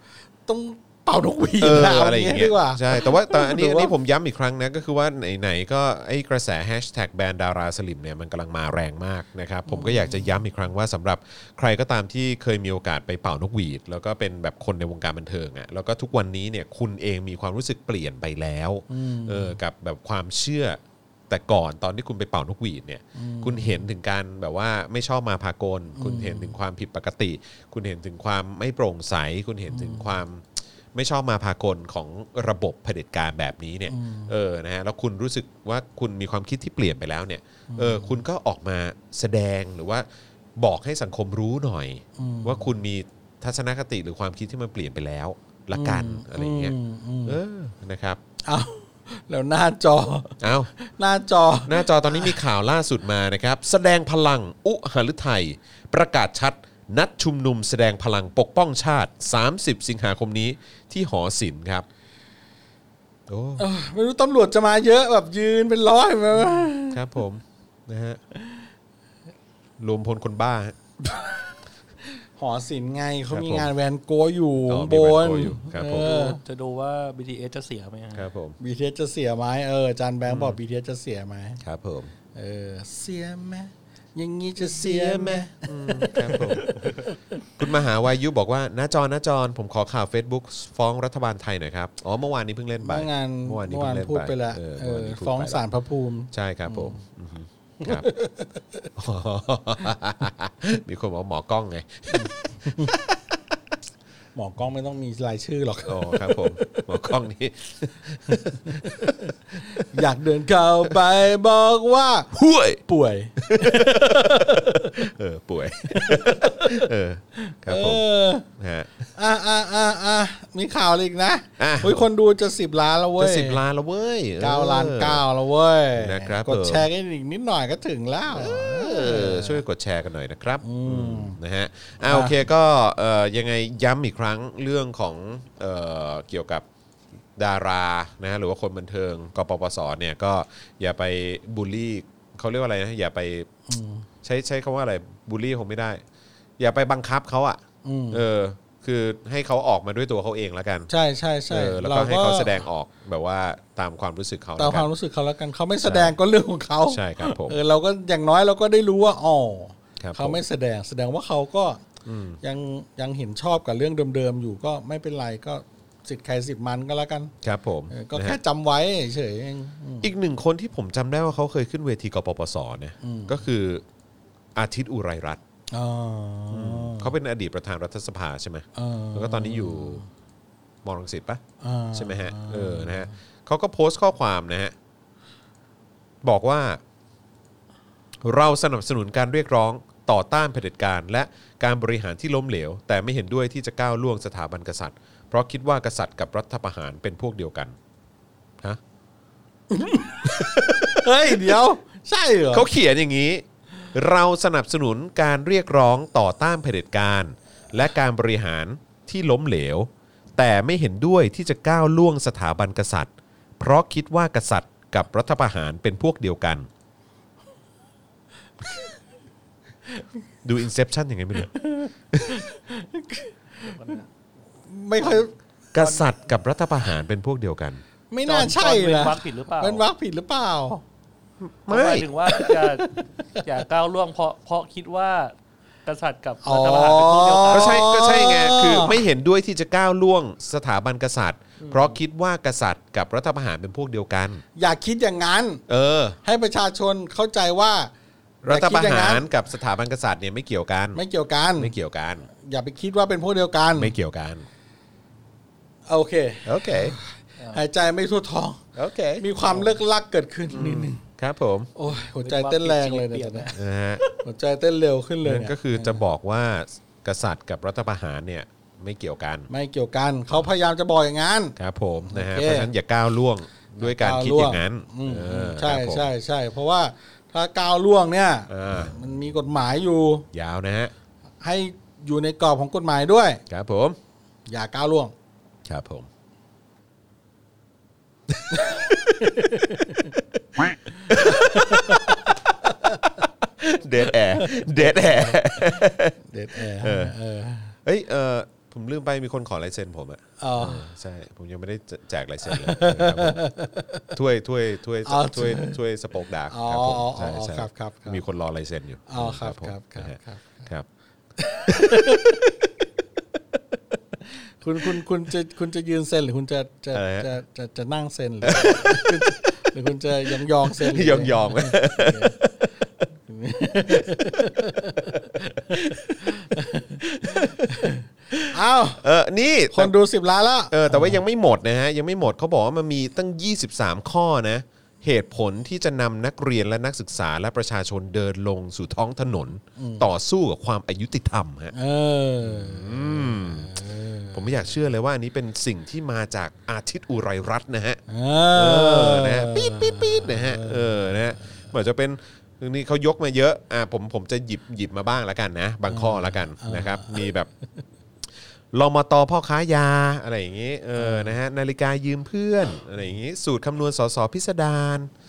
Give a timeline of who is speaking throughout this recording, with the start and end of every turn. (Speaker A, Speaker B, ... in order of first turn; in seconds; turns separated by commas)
Speaker A: 0.5-3.9, Speaker B: 1.6-40.1, Speaker A: 9.7-10.2, Speaker A: 18.9-19.6, Speaker A: 23.1-23.9, Speaker A: 26.0-26.6, Speaker A: 29.7-30.1, Speaker A: 33.9-34.3, Speaker A: 37.7-38.2, Speaker B: 40.6-48.2, Speaker A: 42.2-42.7, Speaker A: 45.7-47.4, Speaker A: 48.5-52.4, Speaker B: 50.4-50.7, Speaker B: 51.7-61.9, Speaker B: 63.3-63.7, Speaker A: 63.6-67.0, Speaker B: 66.9-68.2, Speaker B: 69.8-70.8, Speaker A: 71.0-71.5, Speaker A: 72.4-76.4, Speaker B: 73.3-73.7, Speaker B: 74.7-76.1, Speaker C: 76.0-78.3, Speaker B: 78.1-78.6, Speaker A: 78.6-81.6, Speaker B: 80.3-80.6, Speaker B: 81.6-82.1, Speaker A: 82.3-87.1, Speaker B: 84.6-87.0, Speaker B: 87.6-95.6, Speaker A: 92.8-97.0, Speaker B: 96.3-98.1, Speaker A: 97.8-98.6, Speaker B: 99.0-103.4, Speaker A: 102.1-103.0, Speaker A: 104.3-106.9, Speaker B: 105.9-109.9, Speaker A: 108.3-112.3, Speaker B: 112.3-112.8, Speaker A: 112.8-115.0, Speaker B: 113.4-118.0, Speaker A: 115.9-118.5, Speaker B: 118.6-119.0, Speaker A: 119.2-123.6, Speaker B: 121.6-122.0, Speaker B: 123.2-125.2, Speaker A: 124.4-129.6, Speaker B: 126.0-126.9, Speaker B: 128.3-136.7, Speaker A: 130.6-131.4, Speaker A: 132.0-132.4, Speaker B: 137.4-143.5, Speaker A: 143.7-144.1, Speaker B: 144.2-146.0, Speaker B: 146.6-150.9, Speaker A: 147.8-148.2, Speaker A: 150.9-152.6, Speaker B: 151.5-154.9, Speaker A: 154.6-161.8, Speaker B: 155.8-156.2, Speaker B: 156.9-157.6, Speaker B: 160.0-160.4, Speaker B: 162.1-162.4, Speaker A: 162.4-167.3, Speaker B: 167.4-168.4, Speaker A: 167.9-170.1, Speaker B: 170.0-173.8, Speaker A: 173.0-173.4, Speaker B: 174.6-175.4, Speaker A: 175.7-177.1, Speaker B: 176.5-180.0, Speaker A: 178.8-180.1, Speaker B: 180.8-181.4, Speaker A: 181.6-183.1, Speaker B: 181.9-184.7, Speaker B: 186.2-186.8, Speaker B: 188.2-197.8, Speaker A: 199.7-202.7, Speaker B: 200.3-201.6, Speaker B: 202.5-216.7, Speaker A: 218.6-218.9, Speaker B: 220.4-221.5, Speaker A: 221.5-224.0, Speaker B: 222.1-222.4, Speaker C: 223.7-224.0, Speaker A: 224.7-225.3, Speaker B: 225.7-227.8, Speaker A: 228.1-230.8, Speaker C: 228.3-229.8, Speaker B: 231.4-232.1, Speaker C: 231.7-235.3, Speaker A: 232.3-233.4, Speaker C: 235.8-237.9, Speaker A: 236.4-239.0, Speaker B: 237.5-244.4, Speaker A: 241.6-241.9, Speaker A: 244.6-245.6, Speaker B: 245.7-246.2, Speaker A: 246.2-247.9, Speaker B: 248.4-251.0, Speaker A: 248.5-249.3, Speaker A: 250.9-251.8, Speaker B: 251.6-252.3, Speaker A: 252.3-253.9, Speaker B: 253.8-254.5, Speaker A: 255.9-258.6, Speaker B: 256.4-257.0, Speaker B: 258.8-259.2, Speaker A: 259.2-261.0, Speaker B: 260.5-261.7, Speaker A: 261.8-266.0, Speaker C: 261.9-263.6, Speaker B: 263.5-264.0, Speaker B: 265.2-269.5, Speaker A: 269.5-271.6, Speaker B: 271.6-276.1, Speaker A: 272.1-272.7, Speaker A: 273.8-280.3, Speaker B: 278.5-278.9, Speaker B: 280.3-280.9, Speaker A: 281.4-283.4, Speaker B: 283.5-284.0, Speaker A: 284.5-285.1, Speaker B: 285.7-286.1, Speaker B: 288.3-289.7, Speaker A: 289.2-290.1, Speaker B: 290.6-297.1, Speaker A: 290.9-293.1, Speaker A: 294.4-297.8, Speaker B: 297.9-303.4, Speaker A: 300.4-300.9, Speaker A: 302.5-304.1, Speaker B: 304.1-310.9, Speaker A: 305.1-305.8, Speaker A: 306.5-308.2, Speaker A: 309.1-310.7, Speaker A: 311.4-312.2, Speaker B: 311.7-312.7, Speaker A: 314.6-322.4, Speaker B: 316.9-317.3, Speaker B: 318.4-319.4, Speaker B: 320.7-322.9, Speaker A: 323.3-329.0, Speaker B: 323.9-326.3, Speaker B: 327.3-327.9, Speaker B: 329.0-329.9, Speaker A: 329.7-331.2, Speaker B: 330.7-341.7, Speaker A: 339.8-340.1, Speaker A: 341.7-344.5, Speaker B: 342.4-343.8, Speaker B: 344.3-348.0, Speaker A: 348.1-351.5, Speaker B: 348.5-357.5, Speaker A: 355.9-357.3, Speaker B: 358.7-365.1, Speaker A: 361.0-361.4